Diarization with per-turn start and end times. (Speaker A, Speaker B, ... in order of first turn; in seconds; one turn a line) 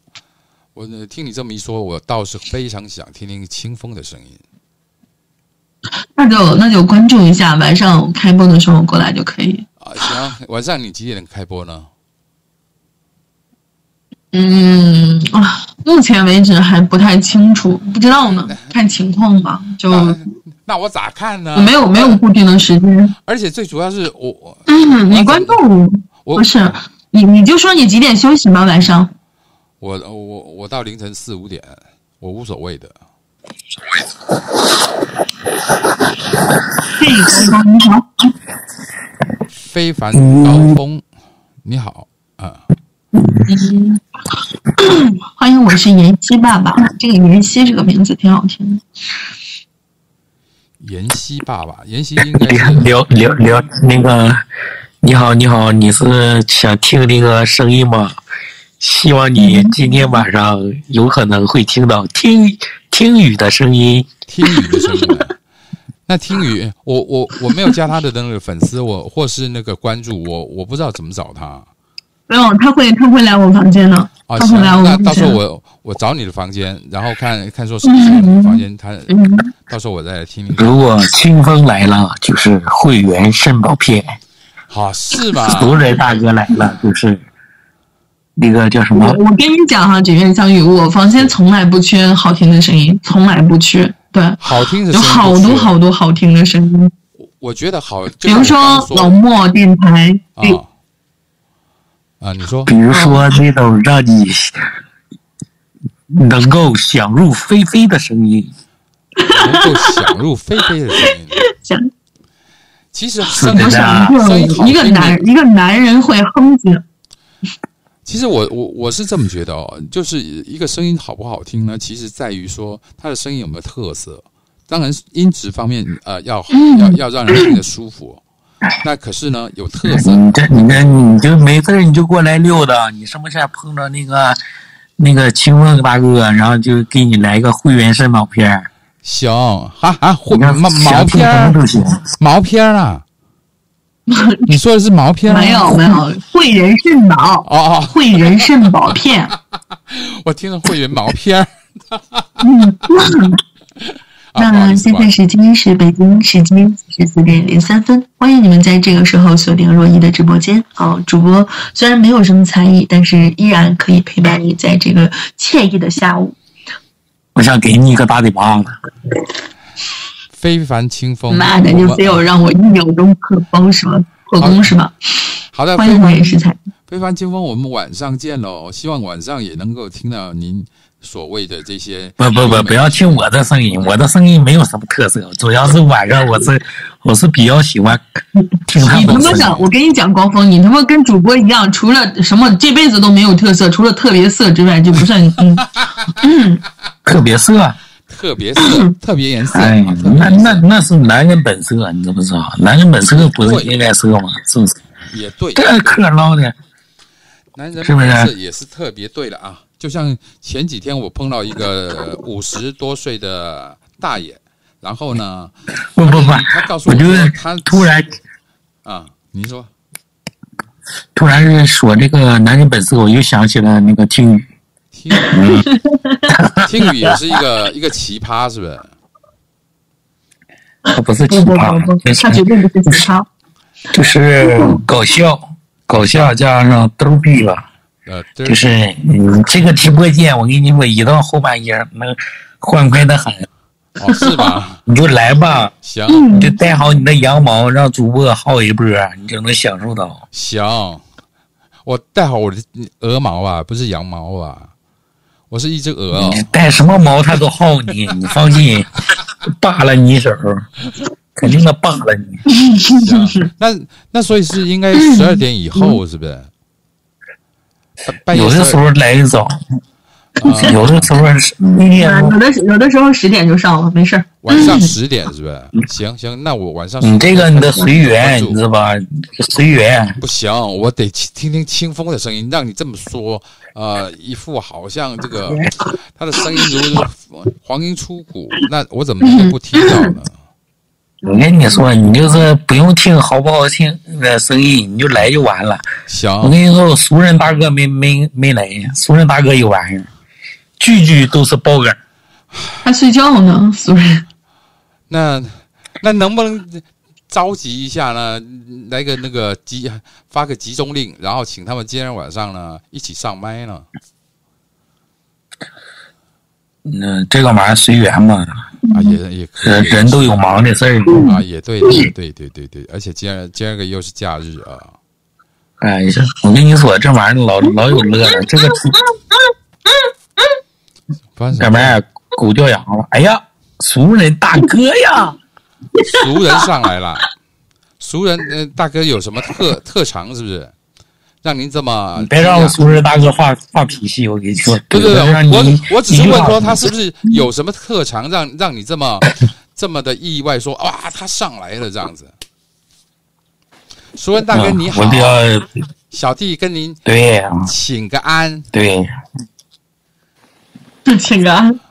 Speaker A: 0.8-4.4
Speaker B: 6.2-9.7
Speaker A: 9.8-11.9
Speaker B: 14.3-20.2
Speaker A: 19.9-22.2
Speaker B: 21.6-23.1
Speaker A: 23.2-25.6
Speaker B: 24.7-29.1
Speaker A: 26.2-26.8
Speaker A: 29.8-33.0
Speaker B: 37.0-38.1
Speaker A: 39.6-41.0
Speaker C: 40.2-40.8
Speaker A: 41.6-42.6
Speaker B: 43.5-44.0
Speaker B: 44.8-48.8
Speaker A: 50.8-52.9
Speaker C: 52.2-54.4
Speaker C: 55.0-58.2
Speaker C: 58.8-64.1
Speaker B: 59.4-59.7
Speaker A: 64.3-65.3
Speaker A: 66.1-71.7
Speaker B: 72.3-75.4
Speaker A: 74.3-79.1
Speaker B: 77.8-79.5
Speaker A: 79.7-80.8
Speaker C: 80.5-84.2
Speaker A: 84.7-85.8
Speaker C: 85.4-87.2
Speaker C: 88.4-89.2
Speaker B: 88.9-94.4
Speaker A: 94.4-95.7
Speaker B: 94.9-96.9
Speaker A: 97.4-99.2
Speaker B: 98.2-100.6
Speaker A: 100.4-100.7
Speaker A: 102.2-102.7
Speaker C: 102.7-104.5
Speaker B: 102.9-103.2
Speaker C: 106.2-108.5
Speaker B: 109.2-109.9
Speaker A: 109.3-111.4
Speaker B: 111.4-111.9
Speaker A: 112.9-115.2
Speaker C: 113.3-114.2
Speaker B: 113.4-116.8
Speaker A: 118.0-128.2
Speaker B: 126.5-127.0
Speaker A: 128.8-131.0
Speaker C: 129.8-134.4
Speaker C: 135.0-138.7
Speaker A: 139.0-141.6
Speaker C: 140.3-142.0
Speaker A: 142.2-143.0
Speaker B: 144.1-144.5
Speaker A: 144.5-145.8
Speaker B: 145.3-149.3
Speaker A: 147.5-148.5
Speaker A: 149.9-152.2
Speaker B: 152.4-153.4
Speaker A: 154.3-155.2
Speaker B: 154.4-166.4
Speaker C: 167.4-168.7
Speaker A: 170.3-172.2
Speaker B: 171.3-174.9
Speaker A: 174.4-174.7
Speaker A: 175.5-183.2
Speaker B: 175.8-176.6
Speaker C: 182.2-188.0
Speaker C: 188.7-189.5
Speaker A: 188.8-189.7
Speaker B: 188.9-195.6
Speaker B: 196.2-196.6
Speaker C: 197.1-197.8
Speaker A: 198.1-200.6
Speaker B: 198.6-198.9
Speaker C: 199.5-204.8
Speaker A: 203.2-203.8
Speaker A: 205.1-206.0
Speaker C: 205.6-206.5
Speaker A: 207.6-215.5
Speaker C: 207.8-208.3
Speaker C: 215.9-218.1
Speaker A: 216.1-217.9
Speaker A: 218.8-219.7
Speaker C: 221.2-224.4
Speaker A: 224.9-225.5
Speaker C: 225.2-225.7
Speaker C: 226.4-227.2
Speaker A: 226.6-228.9
Speaker C: 230.9-233.1
Speaker B: 231.3-233.3
Speaker C: 233.9-237.7
Speaker B: 234.5-234.8
Speaker A: 235.9-236.3
Speaker A: 238.1-238.7
Speaker C: 238.4-243.5
Speaker A: 244.0-244.8
Speaker C: 244.9-245.7
Speaker A: 245.8-246.5
Speaker B: 246.1-246.5
Speaker C: 246.3-250.2
Speaker A: 250.3-251.0
Speaker A: 251.8-254.7
Speaker A: 255.5-256.5
Speaker C: 256.1-258.9
Speaker C: 259.6-260.6
Speaker C: 261.4-262.4
Speaker B: 262.7-263.4
Speaker A: 263.0-266.5
Speaker B: 265.0-265.9
Speaker A: 268.1-268.8
Speaker C: 268.3-269.5
Speaker A: 270.4-271.1
Speaker C: 270.4-272.4
Speaker B: 272.0-274.9
Speaker A: 274.4-278.6
Speaker C: 277.0-280.2
Speaker A: 280.2-290.3
Speaker B: 289.2-290.1
Speaker C: 291.2-295.9
Speaker A: 296.1-296.6
Speaker C: 296.4-300.1
Speaker C: 300.8-302.0
Speaker B: 302.8-304.2
Speaker A: 305.1-313.9
Speaker C: 316.9-318.5
Speaker A: 318.9-324.9
Speaker C: 319.6-321.3
Speaker C: 325.8-328.9
Speaker A: 331.4-332.0
Speaker C: 331.5-335.4
Speaker A: 336.1-337.3
Speaker A: 338.0-340.7
Speaker A: 341.4-342.8
Speaker C: 342.2-346.9
Speaker A: 344.9-352.3
Speaker A: 354.2-355.4
Speaker C: 354.5-355.6
Speaker A: 356.1-357.0
Speaker C: 357.1-357.7
Speaker A: 357.6-358.7
Speaker C: 358.7-359.1
Speaker B: 361.1-361.8